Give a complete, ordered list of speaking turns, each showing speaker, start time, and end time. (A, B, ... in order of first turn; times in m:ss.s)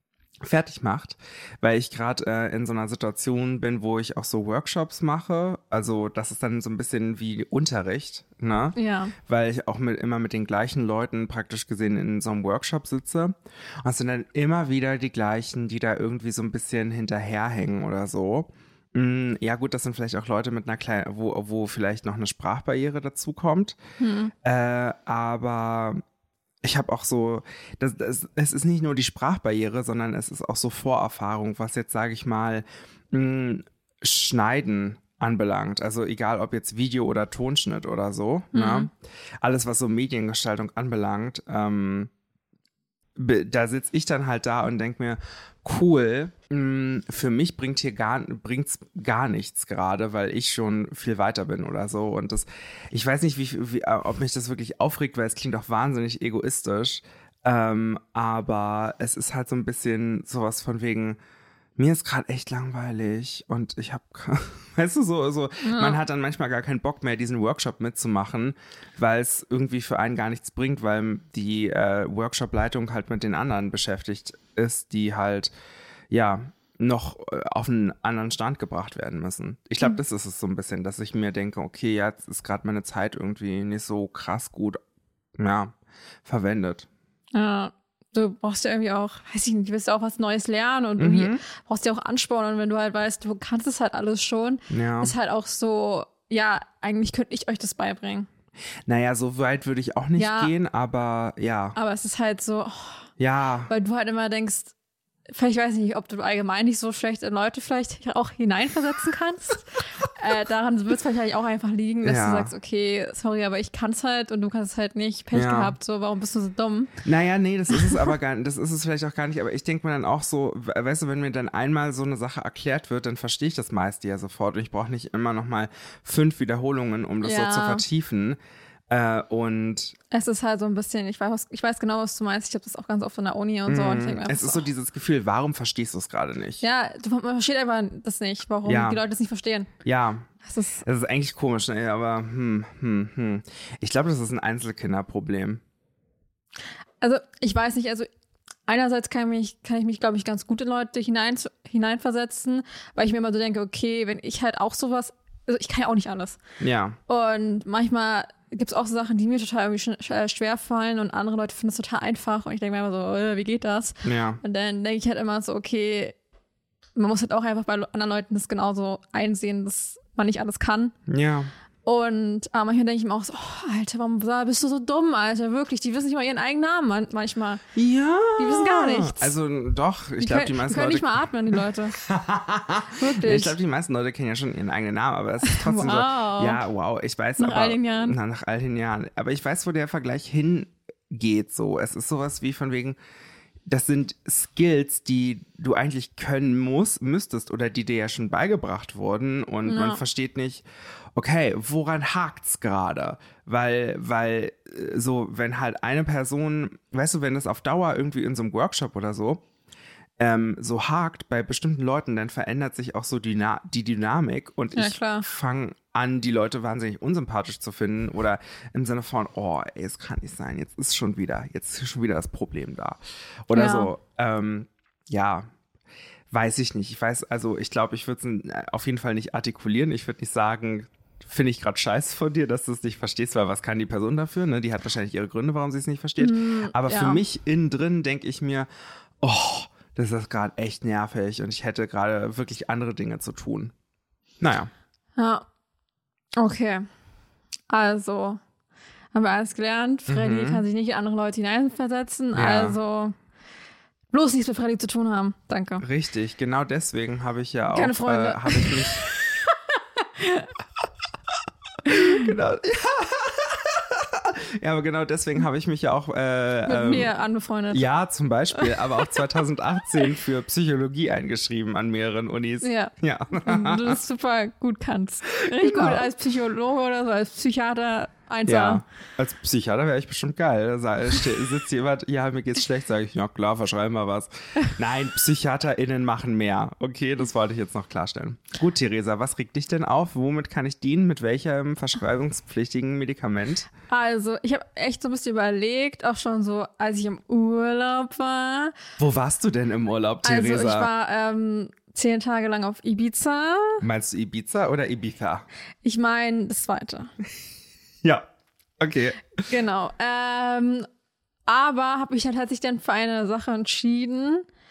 0:00.4-0:23.8 A
0:08.8-0:09.2 B
0:24.0-0:24.3 B
0:24.4-0:26.0 A
0:26.6-0:38.9 A
0:38.5-0:38.9 B
0:39.4-0:42.1 A
0:43.2-1:01.2 A
1:01.8-1:15.5 A
1:05.6-1:06.0 B
1:16.1-1:24.8 A
1:25.4-1:26.9 A
1:27.3-1:38.3 B
1:31.0-1:31.4 A
1:34.7-1:35.1 A
1:38.9-1:41.8 A
1:40.2-1:40.5 B
1:41.8-1:43.1 B
1:43.2-1:43.7 A
1:43.7-1:44.7 B
1:45.3-1:57.0 B
1:52.0-1:52.5 A
1:55.3-1:55.8 A
1:57.0-2:08.4 A
2:07.2-2:07.8 B
2:08.9-2:10.0 A
2:10.1-2:14.6 B
2:13.7-2:16.6 A
2:16.6-2:19.7 B
2:18.7-2:19.0 A
2:19.8-2:20.3 A
2:20.4-2:20.8 B
2:20.8-2:25.6 A
2:27.0-2:28.1 B
2:28.7-2:36.4 B
2:36.6-2:37.0 A
2:37.1-2:46.2 B
2:44.0-2:44.4 A
2:47.0-2:51.0 B
2:51.1-2:51.5 A
2:51.8-2:57.6 B
2:57.7-3:13.0 A
2:58.4-2:59.3 B
3:00.2-3:02.0 B
3:03.0-3:03.6 B
3:05.4-3:06.6 B
3:07.4-3:08.2 B
3:13.7-3:20.6 A
3:19.7-3:20.0 B
3:21.2-3:29.4 A
3:30.2-3:45.5 A
3:34.8-3:35.3 B
3:43.5-3:43.9 B
3:46.3-3:58.7 A
3:56.2-3:57.2 B
3:59.2-4:03.7 A
4:04.4-4:04.7 A
4:05.2-4:05.4 B
4:06.4-4:06.9 B
4:07.7-4:08.4 B
4:09.1-4:13.2 B
4:10.1-4:10.6 A
4:12.3-4:12.8 A
4:14.1-4:15.8 B
4:15.8-4:19.1 A
4:17.7-4:19.2 B
4:20.0-4:20.5 B
4:21.8-4:27.1 A
4:21.9-4:22.3 B
4:26.7-4:27.8 B
4:27.7-4:34.0 A
4:28.6-4:28.8 B
4:32.6-4:38.8 B
4:35.5-4:36.1 A
4:38.5-4:53.7 A
4:53.9-4:58.8 B
4:59.0-5:00.9 A
5:00.2-5:03.8 B
5:03.8-5:05.5 A
5:05.8-5:07.1 B
5:08.8-5:09.4 A
5:09.4-5:10.9 B
5:11.5-5:14.5 B